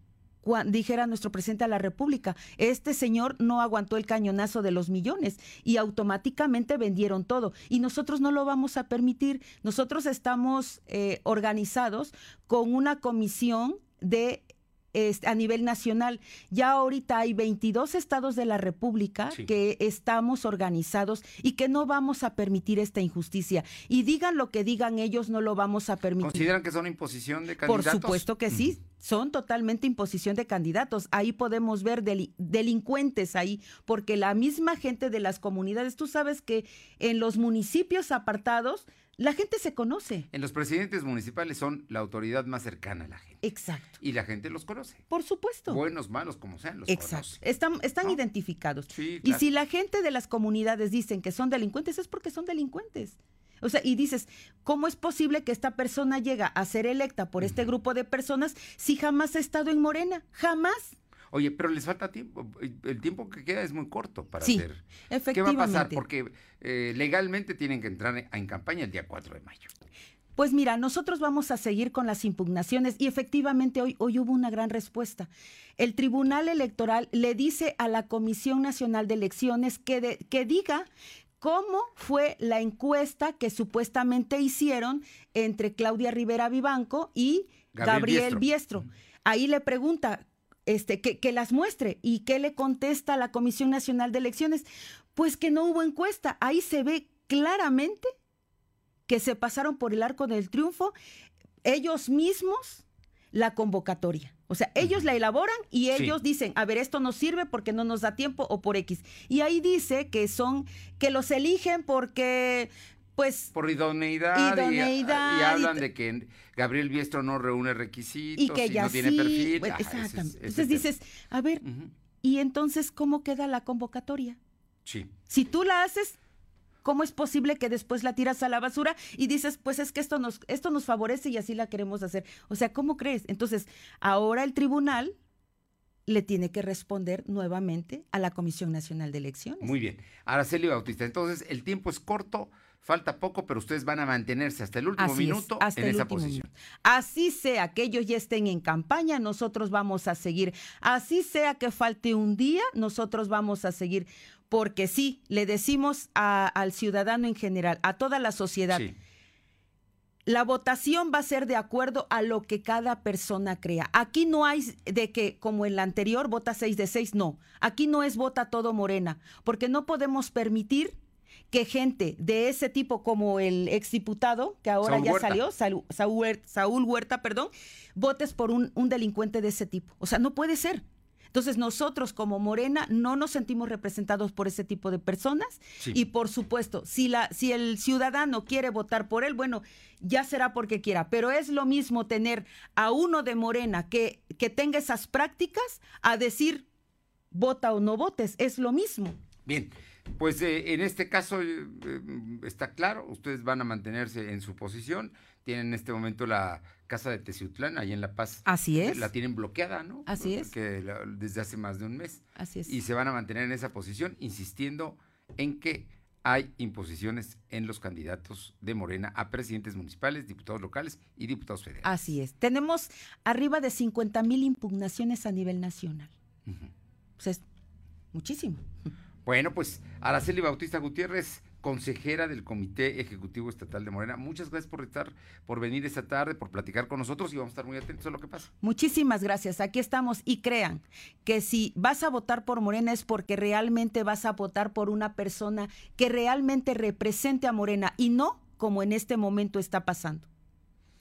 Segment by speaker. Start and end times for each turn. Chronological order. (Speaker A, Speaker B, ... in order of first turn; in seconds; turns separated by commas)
Speaker A: 0.4-26.5, Speaker B: 26.2-28.5, Speaker A: 27.6-40.3, Speaker B: 40.3-43.4, Speaker A: 43.4-43.9, Speaker B: 44.0-45.0, Speaker A: 45.1-45.8, Speaker B: 45.7-47.4, Speaker A: 46.9-60.9, Speaker B: 48.9-49.4, Speaker B: 61.3-69.7, Speaker A: 64.4-66.0, Speaker A: 70.3-80.9, Speaker A: 81.4-98.1, Speaker B: 87.7-88.4, Speaker A: 99.1-100.9, Speaker A: 101.6-113.5, Speaker B: 113.5-120.8, Speaker A: 114.3-115.8, Speaker A: 118.4-121.6, Speaker B: 121.6-121.9, Speaker A: 122.2-124.4, Speaker B: 124.8-125.1, Speaker A: 125.3-126.1, Speaker A: 126.8-135.1, Speaker A: 136.1-139.7, Speaker B: 139.6-146.5, Speaker A: 145.0-158.9, Speaker A: 160.3-171.0, Speaker A: 171.5-196.7, Speaker B: 174.8-175.4, Speaker A: 197.3-199.2, Speaker B: 199.4-221.9, Speaker A: 208.4-209.1, Speaker A: 210.1-210.5, Speaker A: 212.4-212.7, Speaker A: 221.8-226.1, Speaker A: 228.1-228.6, Speaker B: 229.2-238.5, Speaker A: 238.6-250.3